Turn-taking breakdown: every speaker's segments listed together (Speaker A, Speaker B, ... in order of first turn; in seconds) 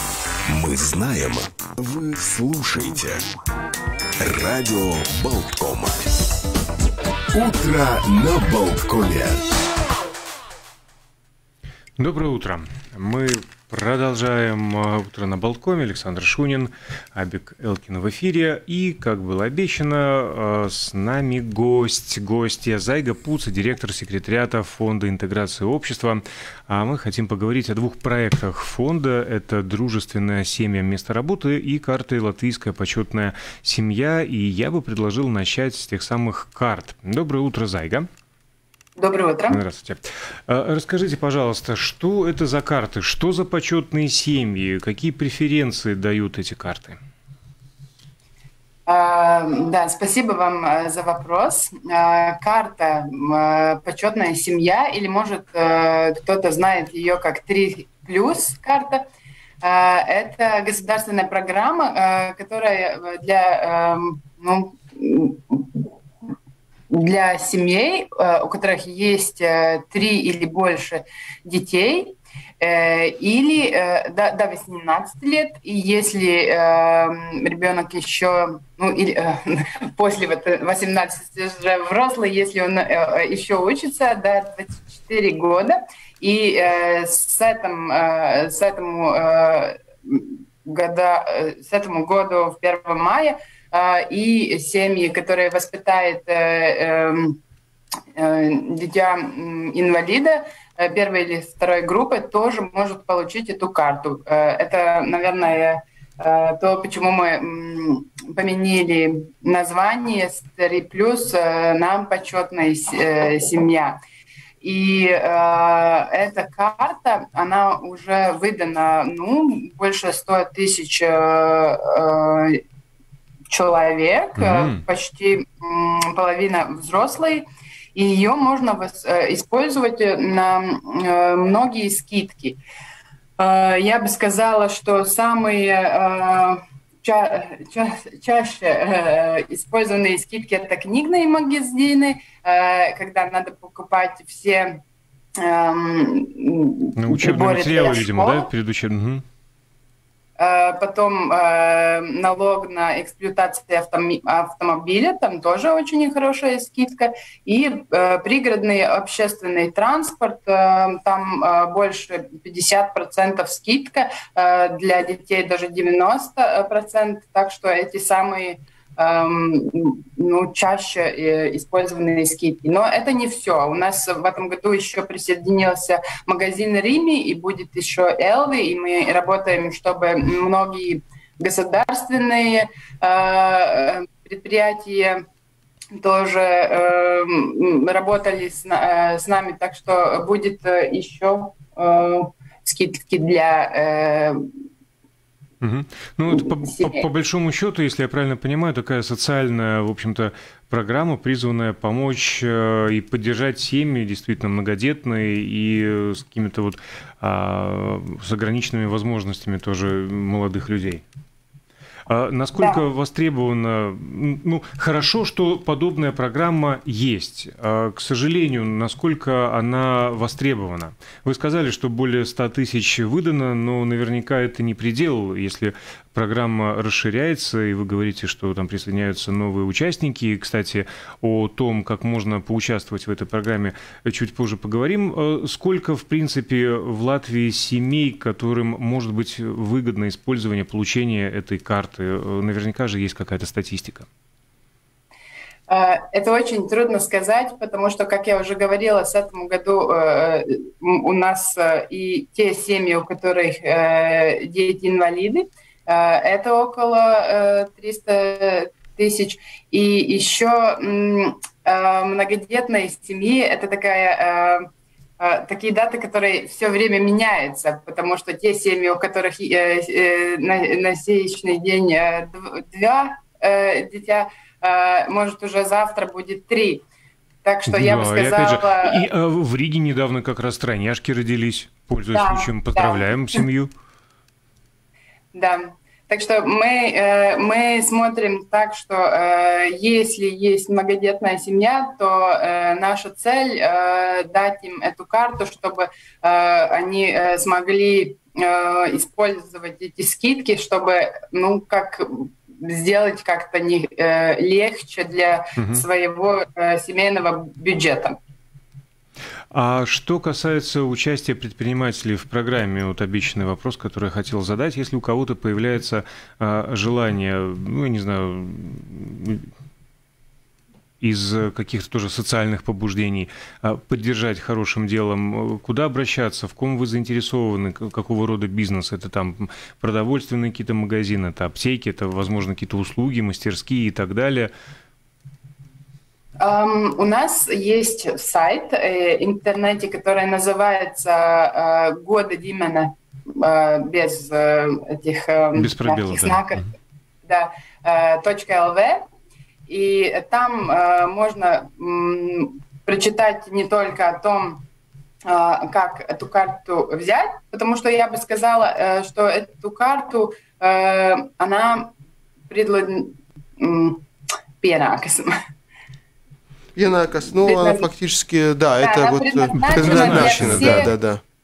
Speaker A: 0.5-3.2, 4.2-6.1, 7.3-9.4
Speaker B: 12.0-38.1, 39.5-47.0, 124.4-124.8, 147.0-149.2, 195.6-211.0, 212.1-244.1, 277.7-283.7, 305.6-305.8, 309.5-319.5, 321.0-334.5, 345.6-346.6, 369.6-370.9
Speaker C: 39.0-39.6, 48.9-59.0, 59.6-65.9, 66.9-97.4, 98.2-114.0, 114.6-122.6, 123.5-132.6, 133.4-144.8, 145.4-148.5, 150.4-185.2, 185.9-194.4, 196.6-197.1, 212.6-212.8, 245.7-264.7, 265.2-276.8, 277.4-279.0, 282.1-283.4, 285.3-308.2, 336.4-346.6, 347.2-349.0, 349.7-354.6, 355.2-361.9, 362.5-364.1, 364.6-365.3, 367.4-367.9, 368.8-370.9
Speaker D: 366.7-371.2